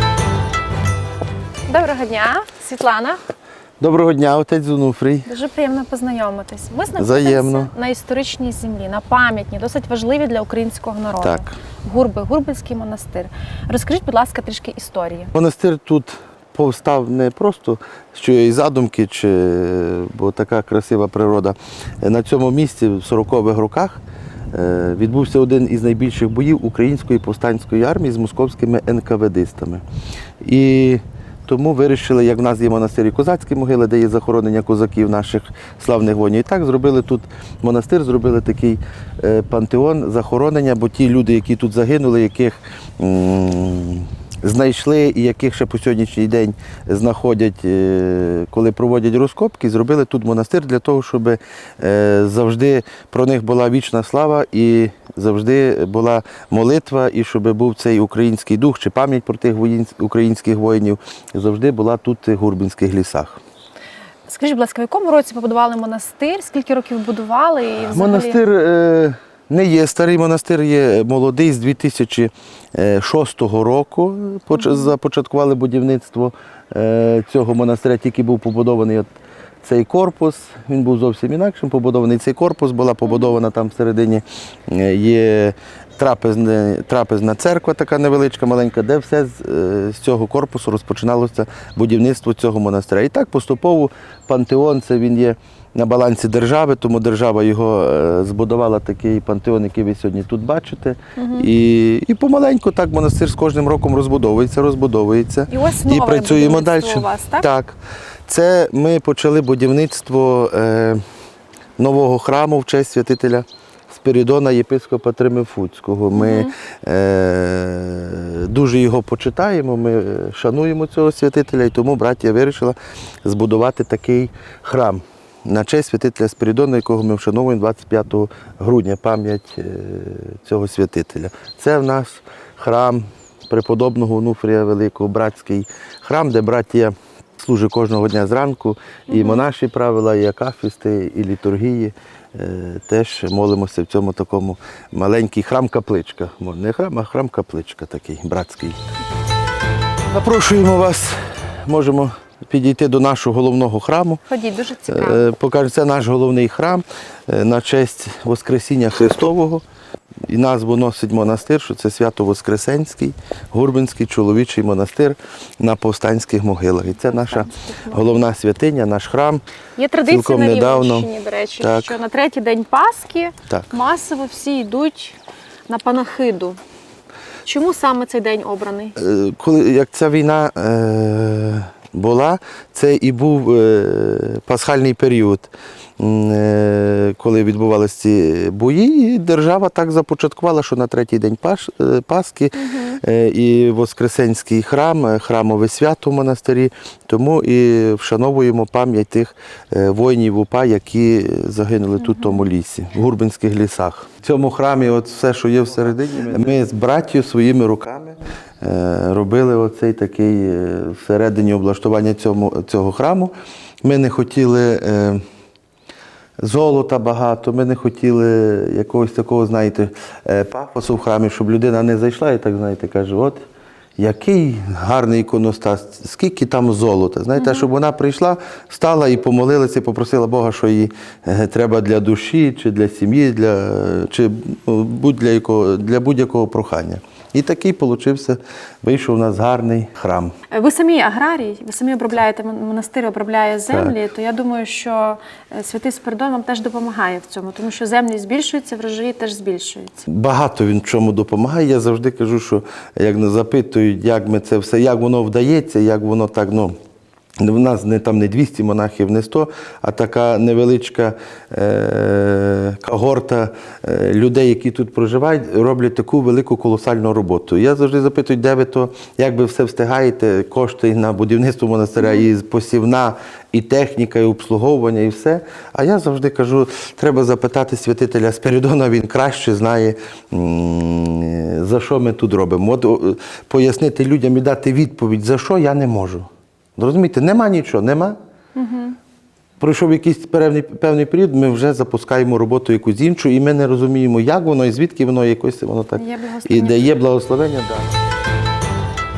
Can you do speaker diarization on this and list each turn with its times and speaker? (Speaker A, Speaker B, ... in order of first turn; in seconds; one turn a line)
Speaker A: 1.7-3.2
Speaker B: 3.8-5.3
Speaker A: 5.3-15.3
Speaker B: 7.0-7.7
Speaker B: 11.2-11.5
Speaker B: 15.4-24.0
Speaker B: 24.5-29.8
Speaker B: 30.4-63.4
Speaker A: 64.3-68.4
Speaker B: 67.8-79.1
Speaker A: 74.5-74.9
Speaker B: 79.6-111.0
Speaker A: 101.2-101.5
Speaker A: 105.5-107.5
Speaker B: 111.8-148.8
Speaker A: 116.2-116.5
Speaker A: 139.1-139.4
Speaker B: 150.1-154.2
Speaker A: 154.3-155.3
Speaker B: 154.9-159.6
Speaker B: 160.3-169.4
Speaker A: 167.0-168.2
Speaker A: 169.8-175.2
Speaker B: 170.1-172.0
Speaker A: 175.7-176.6
Speaker A: 177.4-178.9
Speaker B: 179.0-215.2
Speaker A: 192.6-193.0
Speaker A: 202.0-202.4
Speaker B: 216.4-223.4
Speaker B: 224.0-240.3
Speaker A: 227.4-227.7
Speaker A: 240.5-250.1
Speaker B: 243.7-243.9
Speaker B: 250.1-256.8
Speaker B: 257.4-288.2
Speaker A: 272.0-272.2
Speaker A: 288.6-289.0
Speaker B: 289.6-298.0
Speaker A: 296.0-297.0